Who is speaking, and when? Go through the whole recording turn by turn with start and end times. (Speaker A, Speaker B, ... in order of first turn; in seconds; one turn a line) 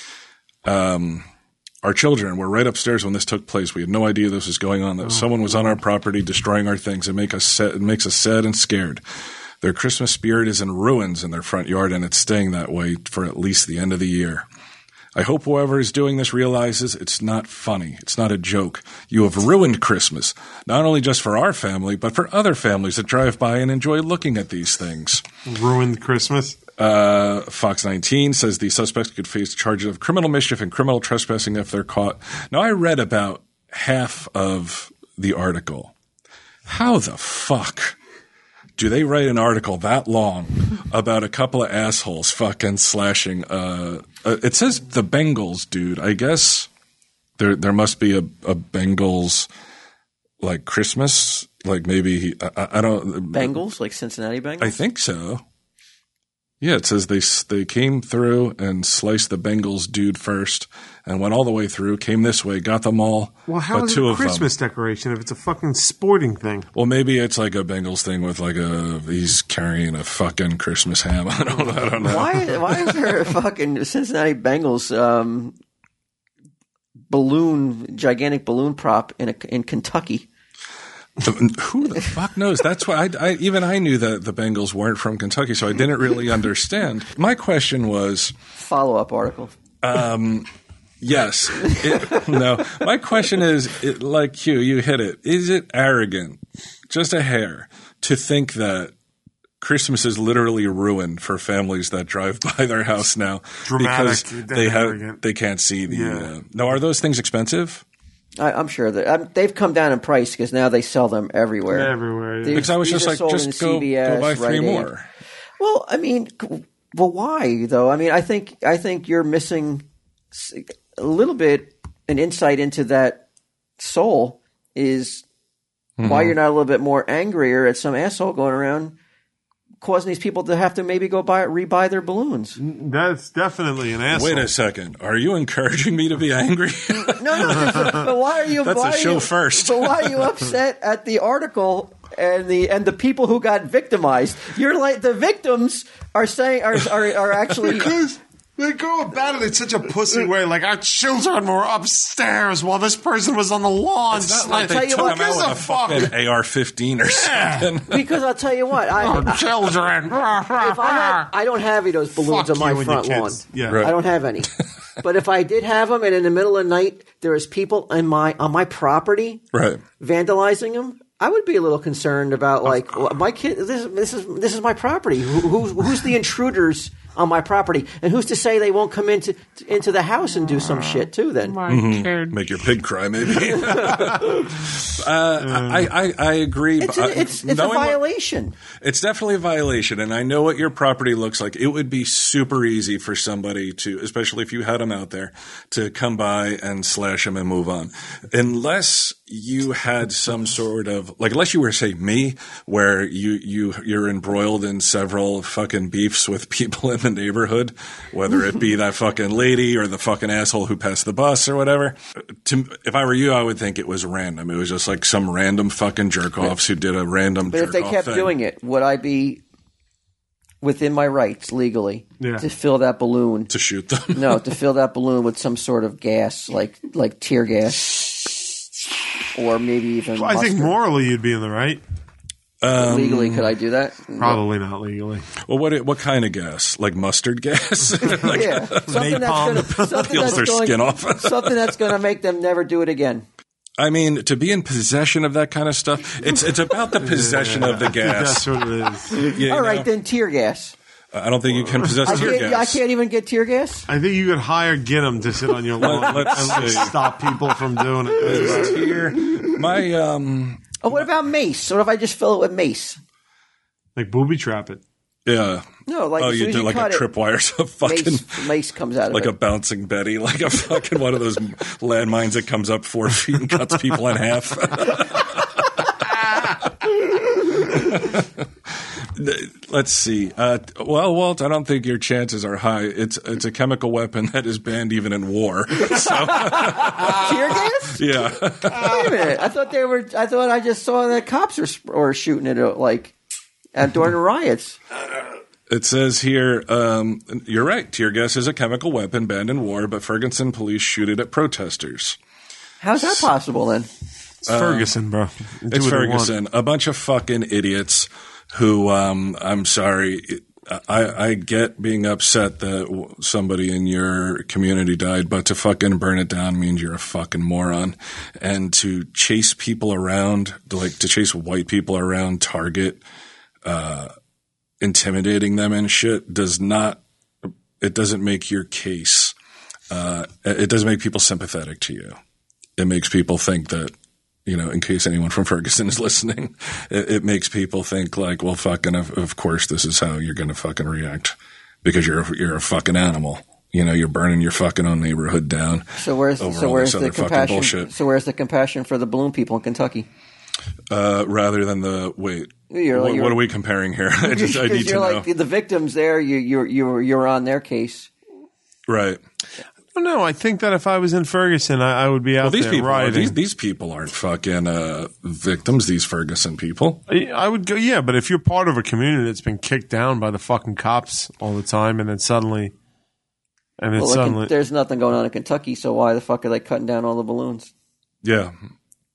Speaker A: 0.7-1.2
Speaker A: 1.8-9.0
Speaker A: 9.6-14.4
Speaker A: 15.2-25.2
Speaker B: 25.5-26.6
Speaker A: 26.8-35.9
Speaker A: 36.7-38.0
Speaker A: 38.8-46.7
Speaker A: 47.4-49.5
Speaker A: 50.4-53.6
Speaker C: 53.3-54.8
Speaker A: 54.6-55.4
Speaker A: 56.6-64.5
Speaker B: 63.5-66.7
Speaker A: 66.7-73.1
Speaker C: 72.0-75.6
Speaker C: 77.1-80.3
Speaker A: 81.2-88.3
Speaker C: 88.6-89.5
Speaker A: 89.8-90.5
Speaker A: 91.0-98.9
Speaker A: 99.6-107.8
Speaker B: 103.7-105.2
Speaker B: 105.9-106.3
Speaker C: 108.4-114.9
Speaker B: 111.7-112.7
Speaker A: 112.5-115.1
Speaker C: 115.6-123.2
Speaker C: 123.8-125.2
Speaker A: 126.0-126.3
Speaker C: 126.0-129.0
Speaker C: 129.8-132.6
Speaker B: 132.6-134.5
Speaker A: 134.1-140.4
Speaker C: 136.9-148.1
Speaker B: 147.8-156.1
Speaker A: 154.1-158.1
Speaker C: 154.6-155.6
Speaker B: 157.2-157.7
Speaker C: 157.9-159.5
Speaker B: 159.0-161.3
Speaker C: 160.6-164.5
Speaker B: 162.2-163.8
Speaker A: 163.7-163.9
Speaker C: 165.0-169.4
Speaker A: 169.5-169.8
Speaker C: 170.0-181.8
Speaker A: 181.7-188.0
Speaker C: 183.6-184.2
Speaker B: 185.4-185.9
Speaker C: 186.8-188.6
Speaker A: 188.8-218.3
Speaker C: 217.4-219.4
Speaker C: 220.6-223.5
Speaker B: 222.2-222.5
Speaker A: 223.5-224.4
Speaker C: 224.1-228.5
Speaker C: 229.3-230.8
Speaker B: 230.2-231.8
Speaker A: 232.6-233.5
Speaker C: 232.8-234.4
Speaker B: 234.2-235.3
Speaker A: 235.4-239.1
Speaker C: 238.2-243.3
Speaker B: 238.3-240.5
Speaker A: 239.7-241.8
Speaker A: 243.8-248.5
Speaker B: 247.0-249.1
Speaker C: 249.2-250.8
Speaker A: 249.2-249.9
Speaker A: 251.1-252.8
Speaker B: 252.0-252.3
Speaker C: 252.0-253.9
Speaker B: 253.9-258.9
Speaker A: 255.8-257.0
Speaker A: 258.2-261.0
Speaker C: 260.8-263.0
Speaker B: 264.0-264.8
Speaker A: 265.3-265.7
Speaker C: 265.9-267.1
Speaker A: 266.2-268.5
Speaker C: 267.8-269.3
Speaker A: 269.1-278.5
Speaker A: 279.1-289.3
Speaker C: 286.0-288.0
Speaker C: 288.7-293.1
Speaker C: 293.7-294.8
Speaker A: 295.7-302.2
Speaker C: 302.8-303.9
Speaker B: 304.4-306.4
Speaker A: 304.5-304.9
Speaker A: 305.7-323.0
Speaker A: 323.6-324.1
Speaker A: 324.8-327.0
Speaker A: 327.8-329.3
Speaker A: 329.9-332.2
Speaker A: 332.8-333.9
Speaker A: 334.5-347.9
Speaker C: 346.0-350.1
Speaker A: 350.9-355.3
Speaker C: 352.7-353.4
Speaker C: 354.2-358.1
Speaker A: 358.9-359.2
Speaker B: 359.9-363.4
Speaker A: 362.4-367.0
Speaker B: 367.1-372.7
Speaker B: 373.8-374.5
Speaker C: 374.0-377.7
Speaker A: 378.2-378.6